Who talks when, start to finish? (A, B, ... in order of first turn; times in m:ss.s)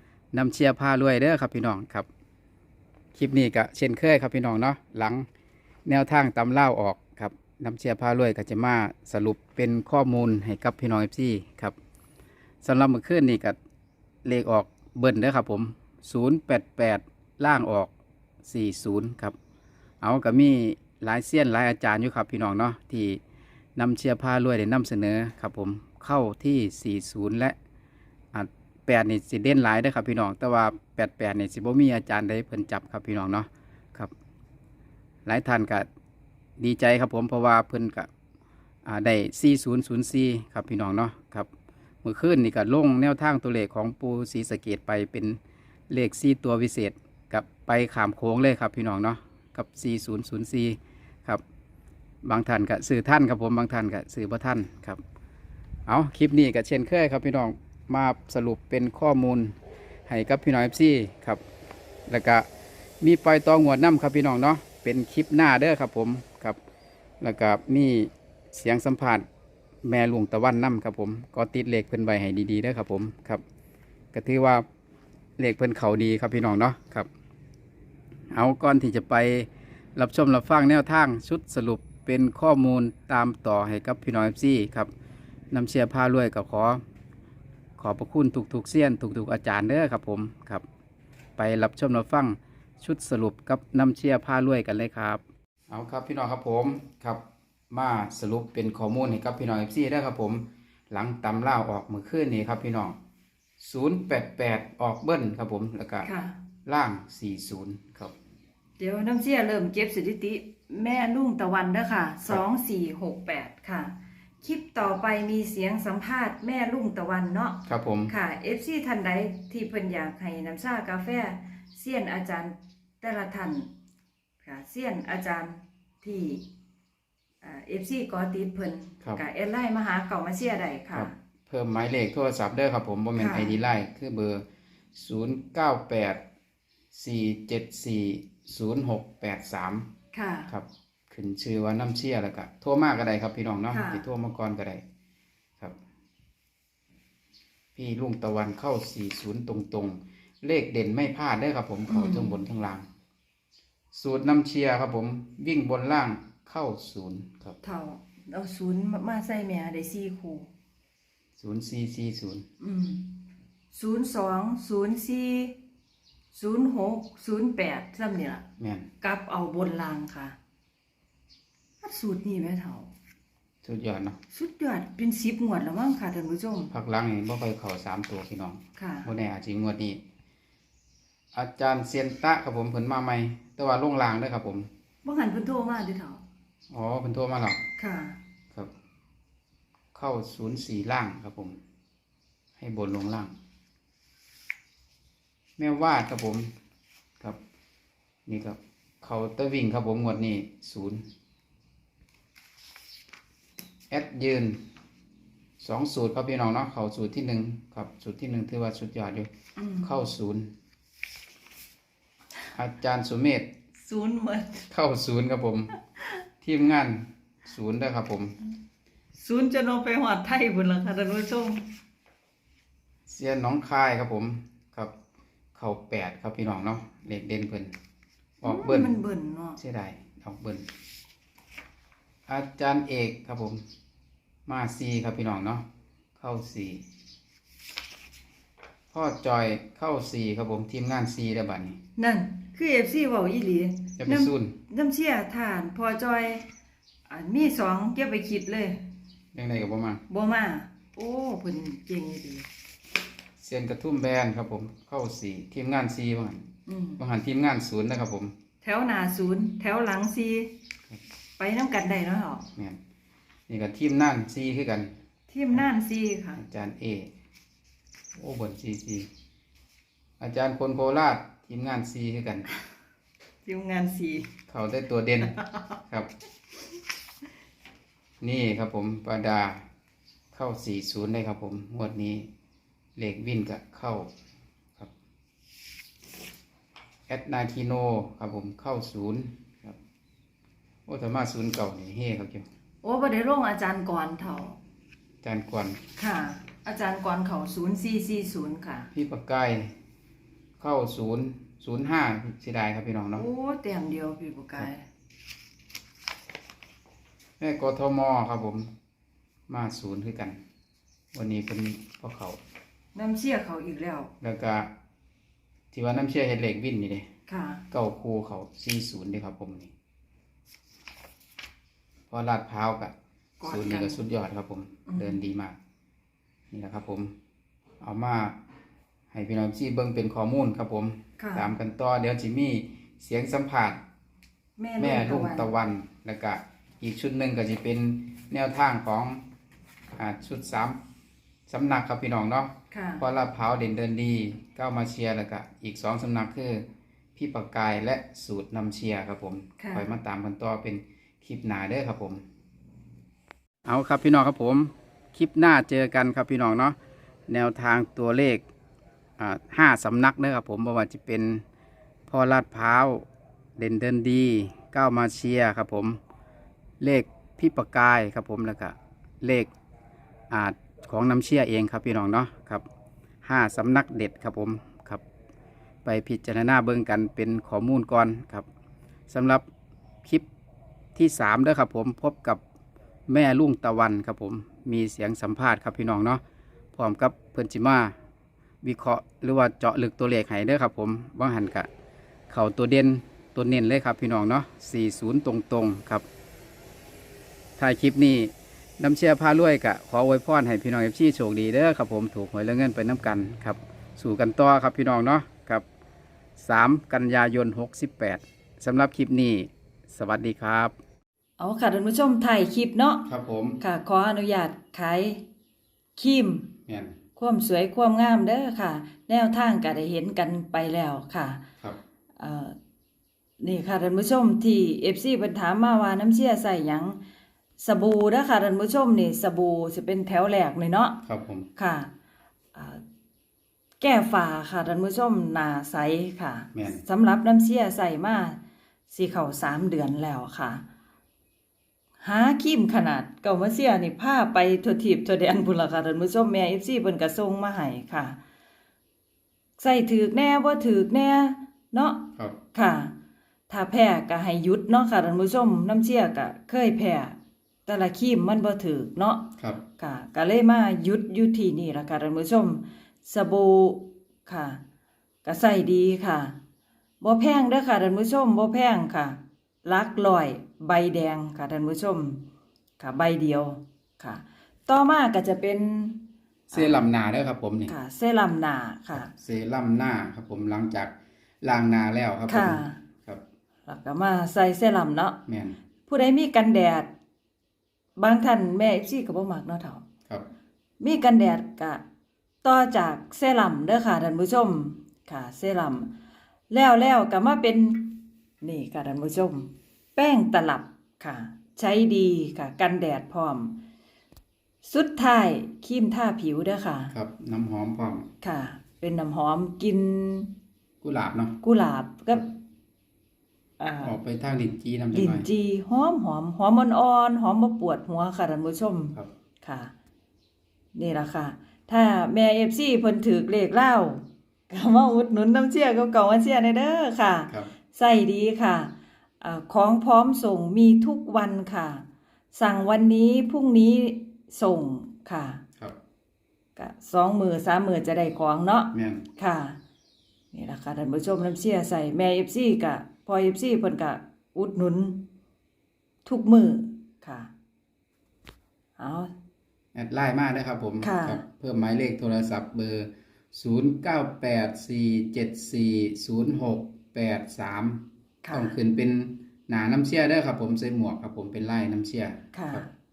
0:00.3-0:02.1 A
0:03.1-0:05.3 A
0:05.9-0:11.7 A
0:12.6-0:13.6 A
0:14.2-0:17.9 A
0:18.4-0:19.3 A
0:20.0-0:23.2 A
0:23.8-0:27.6 A
0:28.3-0:34.1 A
0:35.2-0:35.9 A
0:36.6-0:38.1 A
0:38.8-0:41.5 A
0:42.0-0:51.4 A
0:52.2-0:55.0 A
0:55.9-1:01.4 A
1:02.1-1:02.5 A
1:03.0-1:06.6 A
1:07.2-1:09.3 A
1:09.8-1:13.4 A
1:14.1-1:14.6 A
1:15.4-1:17.1 A
1:18.3-1:24.9 A
1:25.5-1:26.8 A
1:27.8-1:30.6 A
1:31.4-1:43.0 A
1:43.6-1:46.1 A
1:46.0-1:46.4 B
1:46.6-1:48.1 A
1:48.8-2:03.7 B
1:57.7-1:58.1 A
2:04.4-2:06.4 B
2:07.4-2:11.1 B
2:10.9-2:14.4 A
2:13.2-2:13.6 B
2:14.9-2:16.2 A
2:16.9-2:19.9 A
2:20.1-2:20.5 B
2:20.5-2:24.8 A
2:23.7-2:24.0 B
2:27.8-2:32.9 A
2:31.9-2:32.3 B
2:33.9-2:37.6 A
2:37.6-2:40.5 B
2:41.4-2:42.4 A
2:42.6-2:45.6 B
2:46.3-2:48.4 B
2:48.6-2:48.9 A
2:49.0-2:50.4 B
2:51.8-2:52.9 B
2:53.6-2:54.2 A
2:54.3-2:56.7 B
2:56.7-3:00.0 A
2:58.8-2:59.1 B
3:01.3-3:04.7 A
3:05.0-3:06.2 B
3:06.7-3:07.6 A
3:07.8-3:08.2 B
3:09.9-3:11.6 A
3:12.6-3:13.3 A
3:15.6-3:16.5 A
3:18.3-3:21.0 A
3:23.9-3:24.6 A
3:25.6-3:30.5 A
3:29.6-3:29.9 B
3:32.5-3:33.5 A
3:33.8-3:34.7 B
3:34.7-3:35.7 A
3:36.4-3:38.4 A
3:39.2-3:41.7 B
3:43.1-3:44.9 A
3:45.5-3:47.8 A
3:48.4-3:48.9 A
3:48.4-3:49.6 B
3:49.6-3:50.7 A
3:52.3-3:53.6 A
3:54.4-3:55.6 A
3:56.2-3:56.8 A
3:58.9-4:01.8 A
4:02.0-4:06.5 B
4:04.0-4:04.6 A
4:07.1-4:08.9 B
4:09.3-4:10.0 A
4:10.1-4:12.5 B
4:13.4-4:16.5 A
4:16.6-4:17.0 B
4:17.0-4:18.3 A
4:18.6-4:20.5 B
4:21.4-4:22.5 B
4:23.5-4:24.9 A
4:25.3-4:26.4 B
4:26.4-4:27.1 A
4:28.1-4:29.1 A
4:30.2-4:32.4 A
4:33.4-4:34.3 B
4:34.5-4:35.4 A
4:35.3-4:35.6 B
4:38.2-4:39.6 A
4:40.3-4:42.3 A
4:43.0-4:44.1 A
4:47.1-4:49.8 A
4:50.9-4:52.5 A
4:52.8-4:54.6 B
4:55.2-4:55.8 A
4:56.0-4:58.9 B
4:58.9-4:59.7 A
5:00.6-5:03.2 A
5:03.2-5:04.9 B
5:07.4-5:08.7 A
5:09.5-5:10.4 A
5:11.1-5:12.4 A
5:12.9-5:14.1 B
5:14.2-5:14.7 A
5:15.7-5:17.1 A
5:17.3-5:17.6 B
5:17.7-5:19.7 A
5:22.1-5:25.6 A
5:23.4-5:24.0 B
5:24.9-5:25.1 B
5:26.5-5:27.1 A
5:27.8-5:28.4 A
5:29.1-5:33.8 A
5:31.2-5:31.5 B
5:34.6-5:35.5 B
5:34.8-5:39.2 A
5:39.9-5:40.8 A
5:41.5-5:52.2 A
5:42.7-5:43.0 B
5:49.6-5:49.9 B
5:53.6-5:56.8 A
5:57.3-5:58.4 A
5:59.2-6:01.4 A
6:02.1-6:03.1 A
6:03.6-6:06.0 A
6:06.8-6:09.5 A
6:10.3-6:12.6 A
6:13.2-6:15.0 A
6:15.8-6:18.5 A
6:19.1-6:19.4 A
6:20.9-6:22.4 A
6:23.1-6:26.2 A
6:26.7-6:27.9 A
6:28.6-6:31.7 A
6:32.3-6:36.0 A
6:37.6-6:45.6 A
6:46.4-6:50.8 A
6:51.4-6:53.1 B
6:53.1-6:53.6 A
6:53.6-6:55.2 B
6:56.0-6:56.5 B
6:56.7-6:57.0 A
6:57.2-7:01.4 B
7:02.2-7:02.6 B
7:03.4-7:07.0 B
7:07.6-7:11.0 B
7:11.0-7:11.5 A
7:11.6-7:11.9 B
7:12.5-7:12.8 B
7:13.8-7:18.4 B
7:16.6-7:16.8 A
7:18.9-7:20.6 B
7:22.0-7:28.2 B
7:29.6-7:32.9 B
7:33.5-7:44.6 B
7:45.2-7:46.4 B
7:47.0-7:52.2 B
7:52.8-7:56.9 B
7:56.5-7:57.7 A
7:57.7-7:59.1 B
7:58.9-8:03.2 A
8:02.3-8:02.8 B
8:03.7-8:05.2 B
8:05.3-8:05.6 A
8:05.9-8:06.9 B
8:08.0-8:09.8 B
8:10.8-8:11.8 B
8:12.4-8:15.9 B
8:16.5-8:23.6 B
8:24.6-8:26.9 B
8:26.9-8:28.1 A
8:28.2-8:30.3 B
8:30.8-8:31.4 A
8:31.4-8:32.3 B
8:33.6-8:33.9 B
8:33.8-8:35.3 A
8:34.9-8:39.7 B
8:40.8-8:55.4 B
8:56.6-8:59.6 B
8:58.7-8:59.0 A
9:00.3-9:05.1 B
9:06.0-9:07.3 B
9:08.8-9:09.1 B
9:09.8-9:22.6 A
9:10.8-9:11.2 B
9:18.2-9:18.6 B
9:22.3-9:22.7 B